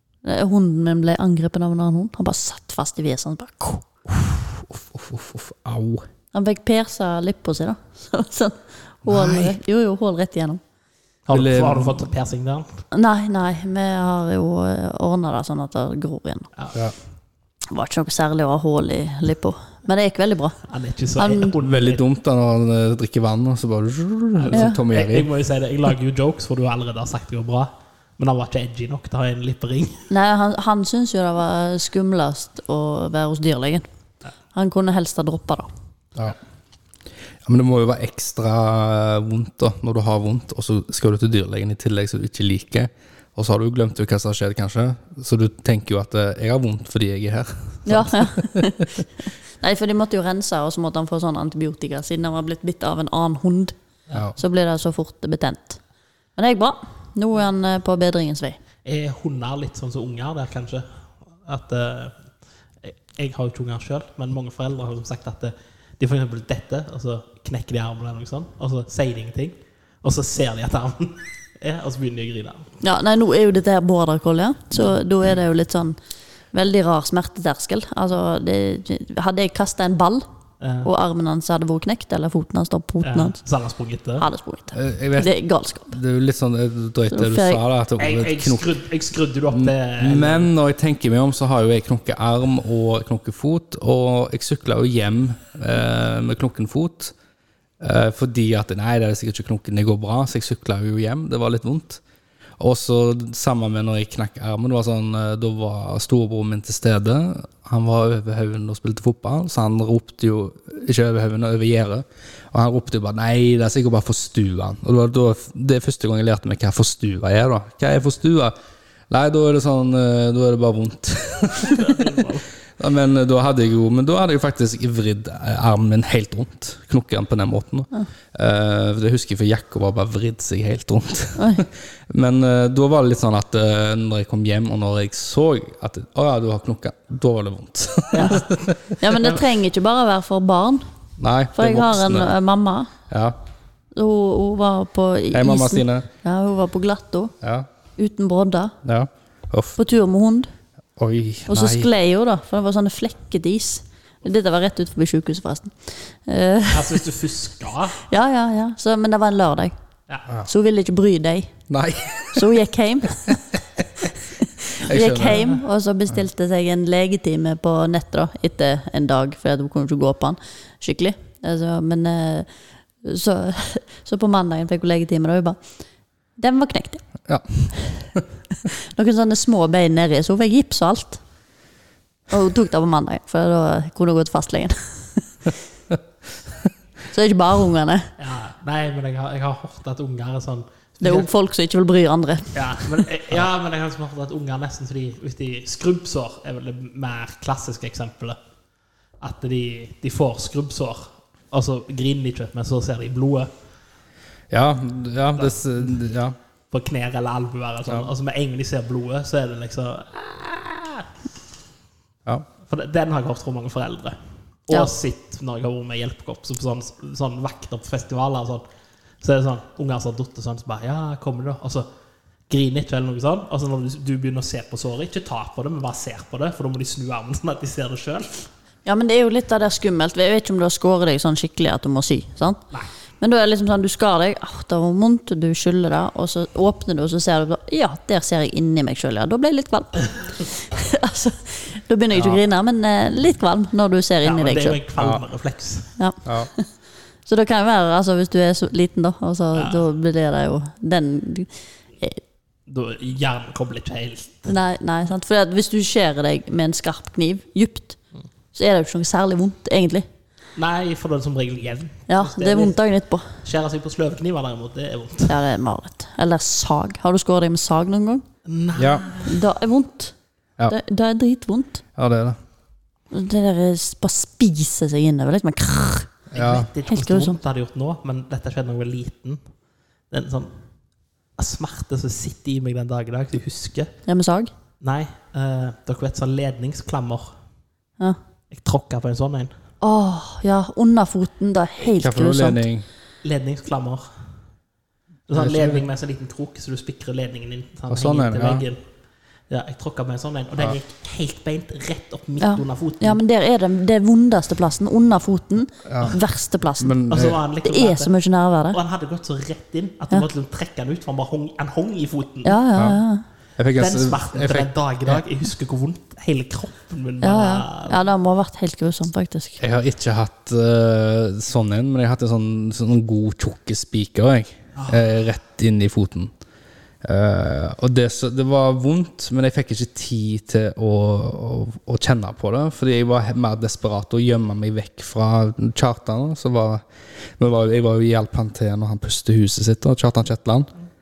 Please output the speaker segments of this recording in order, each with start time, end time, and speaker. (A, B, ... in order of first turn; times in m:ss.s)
0:00.2-0:03.9 A
0:04.1-0:06.0 B
0:06.3-0:10.6 A
0:09.0-0:09.5 B
0:11.2-0:12.8 C
0:11.3-0:12.1 B
0:12.9-0:16.5 A
0:17.7-0:20.6 A
0:20.7-0:22.0 C
0:21.2-0:21.5 A
0:21.6-0:25.3 B
0:24.4-0:30.1 C
0:24.5-0:24.8 A
0:30.1-0:33.8 A
0:34.5-0:35.7 A
0:37.4-0:49.0 B
0:47.8-0:49.0 A
0:49.6-0:53.8 A
0:54.4-0:55.8 A
0:56.4-0:58.6 A
0:58.8-1:00.9 C
1:01.4-1:02.2 C
1:02.8-1:12.7 C
1:12.8-1:16.0 A
1:16.5-1:20.2 A
1:20.6-1:20.9 C
1:20.8-1:23.4 A
1:23.0-1:24.3 C
1:24.2-1:26.0 A
1:24.7-1:25.3 B
1:25.9-1:28.6 B
1:27.1-1:27.6 A
1:28.0-1:30.5 C
1:29.5-1:37.1 B
1:37.8-1:42.0 B
1:42.6-1:58.5 B
1:59.1-2:02.2 B
2:01.6-2:02.5 C
2:02.8-2:19.0 B
2:11.4-2:11.6 A
2:18.1-2:18.6 C
2:18.2-2:18.4 A
2:19.0-2:20.8 A
2:21.2-2:22.3 B
2:21.5-2:22.9 A
2:23.1-2:23.4 B
2:23.9-2:27.3 A
2:25.3-2:26.1 B
2:27.4-2:27.7 B
2:28.0-2:28.7 A
2:28.8-2:29.8 B
2:29.8-2:30.5 A
2:31.0-2:31.9 B
2:31.5-2:37.0 A
2:36.7-2:38.0 C
2:38.1-2:39.7 A
2:40.4-2:41.5 A
2:41.7-2:42.5 B
2:42.3-2:43.4 A
2:43.3-2:43.8 B
2:44.4-2:52.5 A
2:44.8-2:45.5 B
2:53.0-2:55.6 A
2:56.4-2:57.0 A
2:57.3-2:58.2 B
2:58.6-3:01.2 A
3:02.3-3:05.3 A
3:07.1-3:08.1 A
3:08.2-3:11.3 C
3:11.0-3:13.0 A
3:12.5-3:18.4 C
3:19.2-3:23.5 C
3:24.5-3:26.4 B
3:25.4-3:26.0 C
3:26.7-3:31.1 C
3:32.7-3:38.6 C
3:39.2-3:41.9 C
3:42.5-3:48.4 C
3:48.8-3:52.6 A
3:53.2-4:04.8 A
4:02.1-4:02.4 B
4:04.2-4:05.9 C
4:05.0-4:05.2 B
4:06.0-4:06.7 A
4:06.2-4:06.5 B
4:07.2-4:12.2 A
4:09.5-4:09.8 C
4:12.7-4:14.5 C
4:14.5-4:18.0 A
4:18.5-4:20.0 A
4:20.6-4:22.8 C
4:22.1-4:23.4 A
4:23.4-4:25.4 C
4:25.3-4:28.2 A
4:28.4-4:29.4 C
4:28.7-4:29.1 B
4:29.2-4:30.1 A
4:30.7-4:31.8 A
4:32.0-4:32.4 B
4:33.1-4:36.1 A
4:36.3-4:36.7 B
4:36.3-4:39.4 C
4:36.8-4:37.4 A
4:40.1-4:40.5 C
4:41.4-4:43.9 C
4:44.0-4:44.5 A
4:44.8-4:47.3 C
4:48.5-4:49.5 C
4:49.8-4:52.6 A
4:52.0-4:52.8 B
4:53.2-4:54.0 C
4:55.3-4:58.8 C
4:55.3-4:55.9 B
4:57.9-4:58.6 B
4:59.5-5:03.2 C
5:02.4-5:07.0 A
5:05.8-5:06.2 B
5:06.8-5:07.4 B
5:07.1-5:08.1 C
5:07.6-5:08.8 A
5:08.7-5:12.6 C
5:12.4-5:13.2 A
5:13.6-5:15.2 B
5:13.8-5:18.0 C
5:17.2-5:19.6 A
5:19.6-5:26.3 B
5:24.7-5:25.0 C
5:27.0-5:36.8 B
5:37.4-5:40.7 B